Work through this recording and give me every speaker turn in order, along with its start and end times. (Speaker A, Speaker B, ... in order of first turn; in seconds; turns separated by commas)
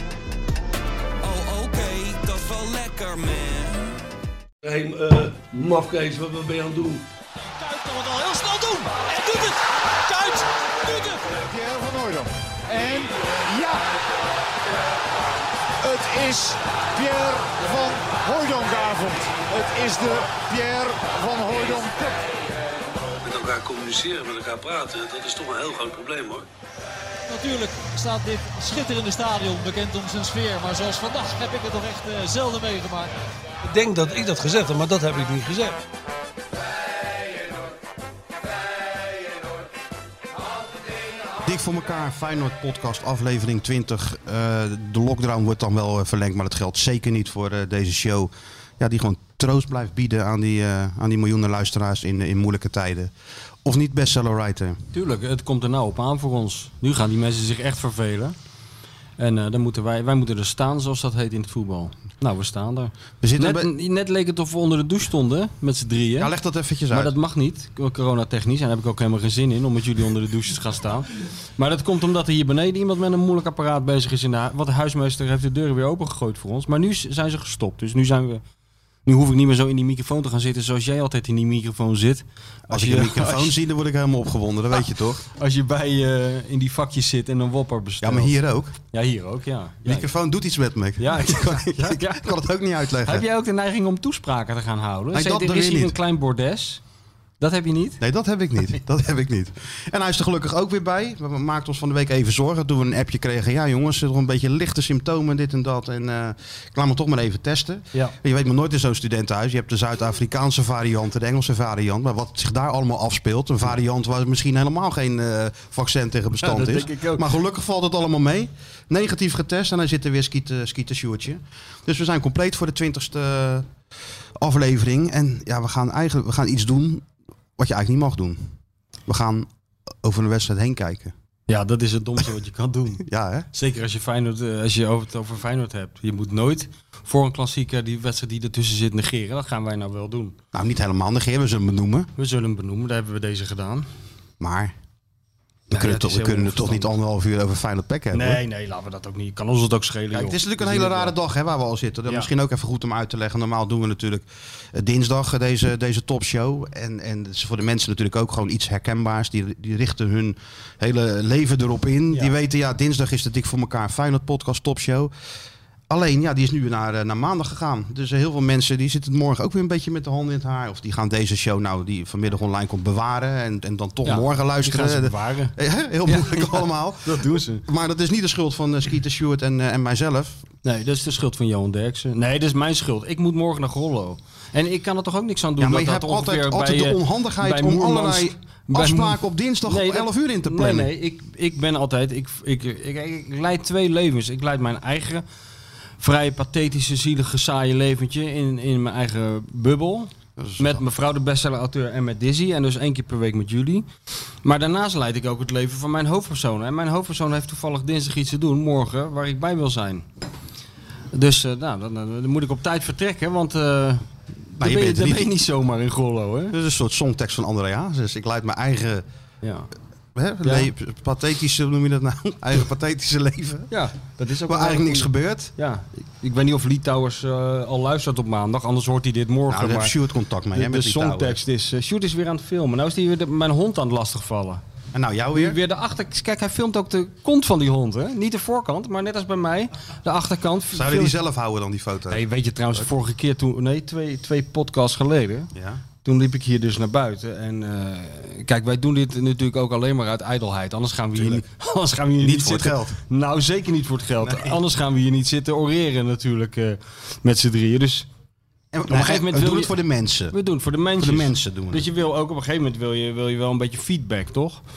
Speaker A: 1.2-4.0, Speaker B: 4.6-7.0, Speaker C: 7.4-11.2, Speaker D: 11.4-13.8, Speaker D: 15.8-22.3, Speaker B: 23.2-26.5, Speaker C: 27.3-33.1, Speaker B: 33.6-35.8, Speaker E: 41.4-53.1, Speaker E: 53.6-54.8, Speaker F: 54.9-58.4, Speaker F: 59.2-66.3, Speaker E: 63.2-63.7, Speaker E: 66.2-67.2, Speaker F: 66.9-78.4, Speaker F: 79.1-83.6, Speaker E: 82.7-85.2, Speaker F: 85.3-88.3, Speaker E: 88.0-88.8, Speaker F: 88.9-90.0, Speaker E: 89.8-93.2, Speaker F: 91.0-92.3, Speaker F: 93.0-96.8, Speaker E: 95.1-96.0, Speaker F: 97.4-98.0, Speaker E: 98.0-123.7, Speaker F: 116.4-117.3, Speaker E: 124.4-127.0, Speaker E: 127.6-128.5, Speaker E: 129.1-129.5, Speaker E: 130.0-131.1, Speaker F: 131.5-140.4, Speaker E: 133.0-133.5, Speaker E: 140.5-142.1, Speaker F: 142.2-143.9, Speaker E: 144.4-144.7, Speaker F: 145.7-146.9, Speaker E: 145.7-148.4, Speaker F: 148.1-151.2, Speaker E: 150.1-165.1, Speaker E: 165.9-180.4, Speaker F: 174.1-177.7, Speaker F: 180.6-195.2, Speaker E: 185.6-190.9, Speaker F: 196.0-203.9, Speaker E: 200.4-200.8, Speaker F: 204.4-210.1, Speaker F: 211.1-216.6, Speaker E: 214.6-215.3, Speaker E: 216.5-219.0, Speaker F: 219.4-219.7, Speaker E: 220.2-223.8, Speaker F: 220.4-220.7, Speaker F: 223.7-229.9, Speaker E: 224.4-225.5, Speaker E: 229.5-231.4, Speaker F: 230.5-234.6, Speaker E: 234.9-235.6, Speaker F: 235.3-241.2, Speaker E: 240.7-242.9, Speaker F: 242.1-245.5, Speaker E: 245.5-245.8, Speaker F: 246.0-258.1, Speaker E: 251.2-251.4, Speaker E: 252.2-253.0, Speaker E: 254.2-254.6, Speaker E: 258.7-260.4, Speaker F: 258.9-259.8, Speaker F: 260.3-264.6, Speaker E: 261.0-261.9